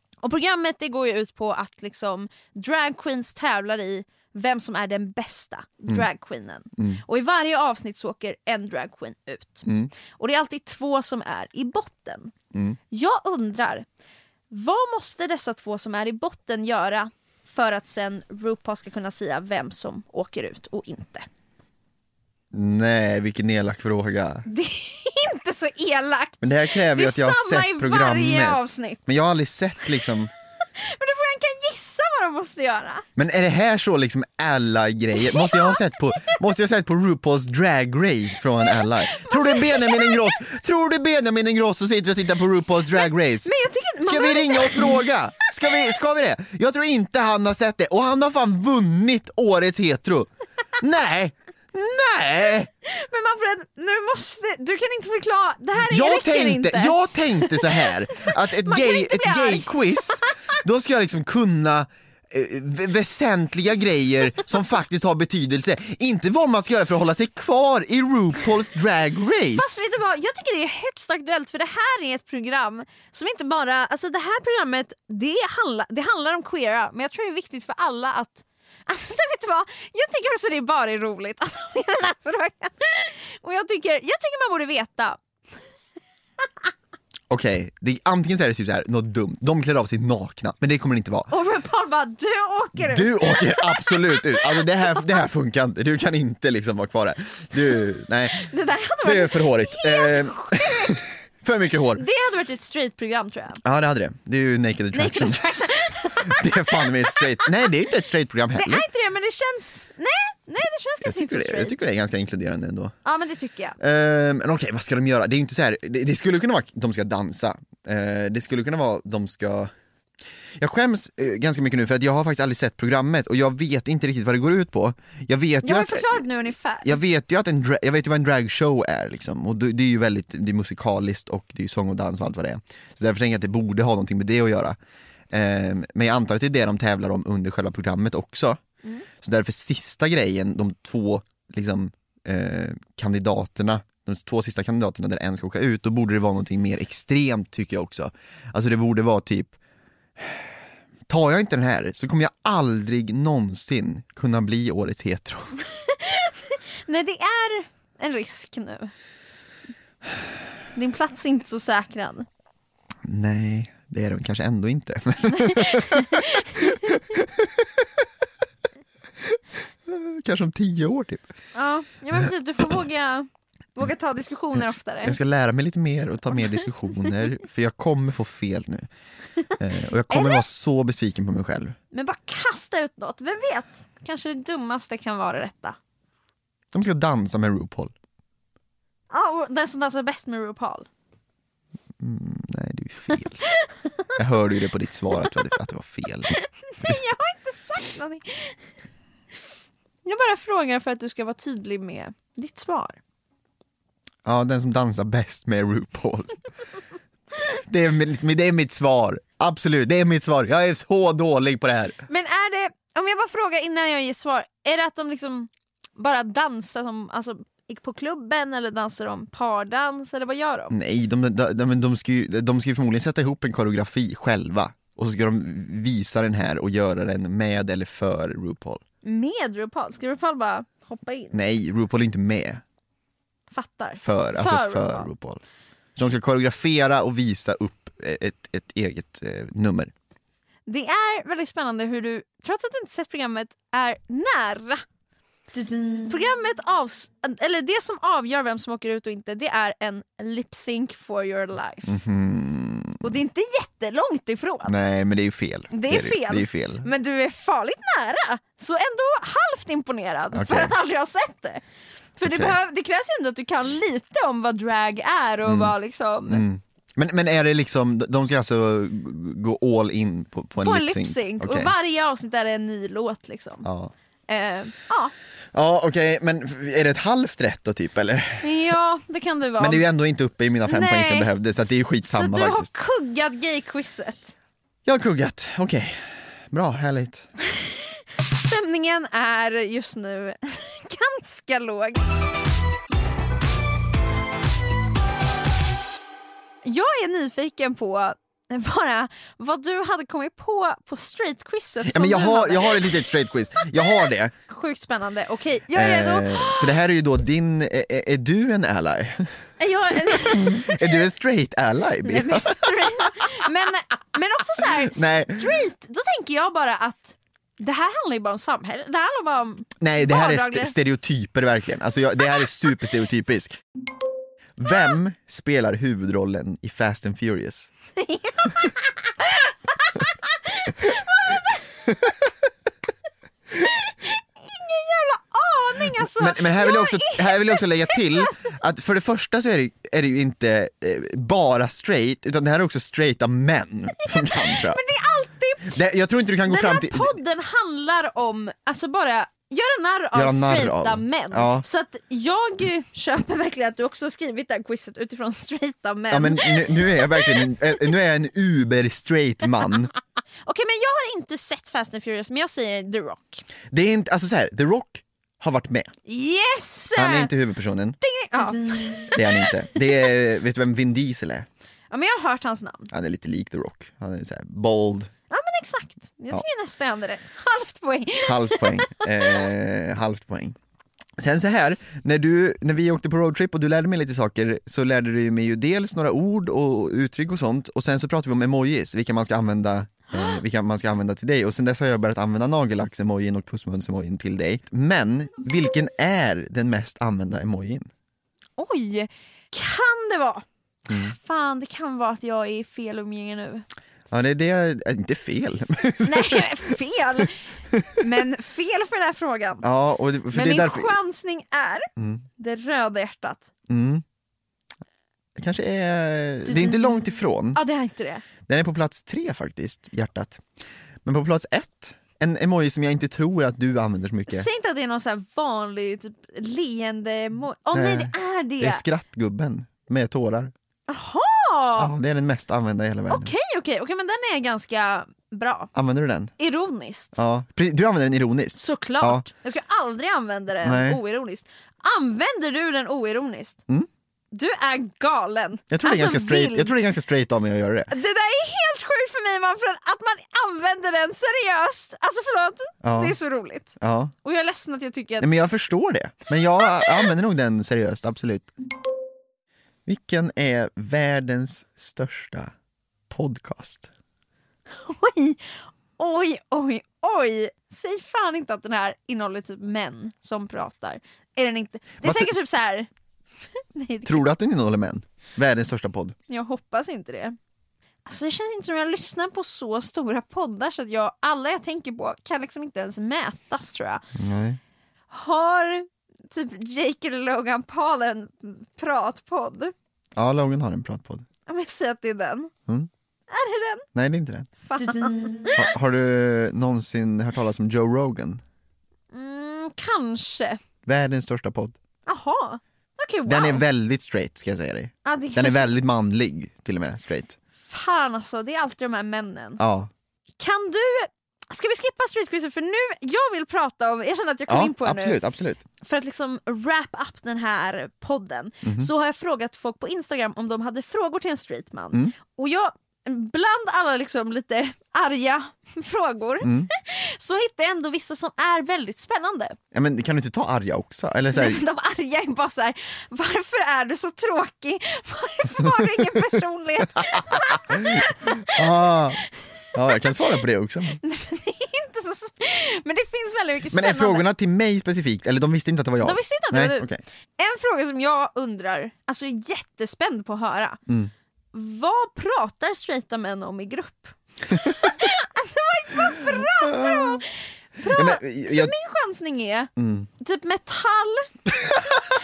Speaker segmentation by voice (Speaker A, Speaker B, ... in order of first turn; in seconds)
Speaker A: 0.2-12.3, 12.9-13.9, 14.5-21.3, 24.5-29.1, 30.8-33.0, 35.2-36.4, 38.8-40.4, 42.9-45.8, 52.8-60.4, 69.5-85.2, 91.3-95.1, 98.3-101.0, 102.0-103.6, 104.9-107.5, 108.5-111.8, 113.0-113.8, 125.6-127.0, 155.6-158.9, 160.7-162.3, 165.3-166.9, 171.6-175.2, 180.1-180.4, 181.9-185.8, 189.1-190.9, 196.4-198.6, 200.1-203.0, 212.1-220.7, 229.0-231.4, 233.5-235.1, 240.7-244.8, 245.5-251.9, 253.0-254.7, 255.7-261.6, 262.2-266.4, 270.6-273.6, 274.3-275.1, 278.4-279.8, 280.7-281.3, 282.1-284.4, 287.6-292.0, 296.6-303.1, 304.5-306.7, 309.6-311.1, 312.0-320.7, 328.0-331.9, 333.6-338.6, 344.2-345.8, 346.5-357.5, 360.4-363.4, 366.1-367.3, 368.0-369.7, 371.9-372.9, 375.3-379.5, 390.1-390.4, 398.6-403.6, 406.0-407.4, 408.0-409.7, 410.3-413.5, 416.4-418.2, 424.3-428.8, 430.9-431.9, 433.1-435.7, 436.4-437.2, 438.6-443.6, 444.3-446.7, 447.9-455.3, 456.8-457.1, 464.7-472.9, 473.7-474.3, 476.3-477.4, 478.1-484.0, 485.1-489.7, 491.5-492.5, 493.3-493.9, 494.7-495.7, 499.1-500.6, 502.1-503.6, 505.1-505.7, 507.7-509.6, 510.4-515.2, 515.8-529.6, 531.3-538.6, 541.0-544.2, 546.0-546.9, 547.4-550.8, 551.5-561.3
Speaker B: 9.7-9.9, 22.5-24.4, 26.4-30.3, 33.2-52.7, 55.8-69.7, 87.3-91.3, 92.8-98.5, 99.0-102.0, 103.6-108.8, 111.0-113.0, 113.8-119.7, 120.6-126.3, 126.8-134.8, 135.3-138.6, 139.2-149.5, 150.2-150.4, 151.1-155.6, 163.1-168.1, 169.2-171.3, 172.2-172.7, 174.6-178.9, 179.6-181.8, 186.7-187.9, 192.0-193.4, 194.2-197.0, 204.2-206.3, 207.6-212.0, 220.7-228.8, 231.3-232.6, 234.0-235.4, 235.9-239.9, 251.9-253.1, 254.6-256.9, 260.3-260.7, 262.2-262.6, 265.4-265.7, 266.3-271.7, 273.6-273.9, 275.5-278.5, 279.6-282.7, 284.8-287.3, 301.8-304.3, 305.7-313.1, 314.9-315.6, 319.8-323.6, 324.6-327.7, 335.9-344.8, 345.7-347.1, 350.1-351.6, 356.1-359.9, 363.7-365.9, 366.9-368.6, 369.1-371.5, 372.9-375.1, 378.2-380.6, 381.2-397.9, 400.9-401.1, 404.1-406.7, 409.6-410.9, 412.0-412.2, 413.7-414.0, 415.4-417.6, 418.5-420.4, 421.0-424.5, 427.7-430.5, 431.8-433.3, 435.7-436.3, 437.1-439.2, 440.6-441.0, 445.7-447.9, 452.8-453.2, 453.8-454.1, 455.2-458.5, 459.9-462.5, 463.1-463.9, 472.0-472.3, 474.1-476.1, 484.1-484.6, 490.1-491.2, 493.9-494.5, 495.5-498.4, 500.9-501.8, 503.3-507.4, 509.6-509.9, 514.5-515.6, 518.6-518.9, 526.4-526.7, 529.7-531.6, 535.6-536.2, 537.0-539.2, 539.7-541.0, 543.7-547.0, 556.2-557.2, 557.9-558.7, 559.8-560.1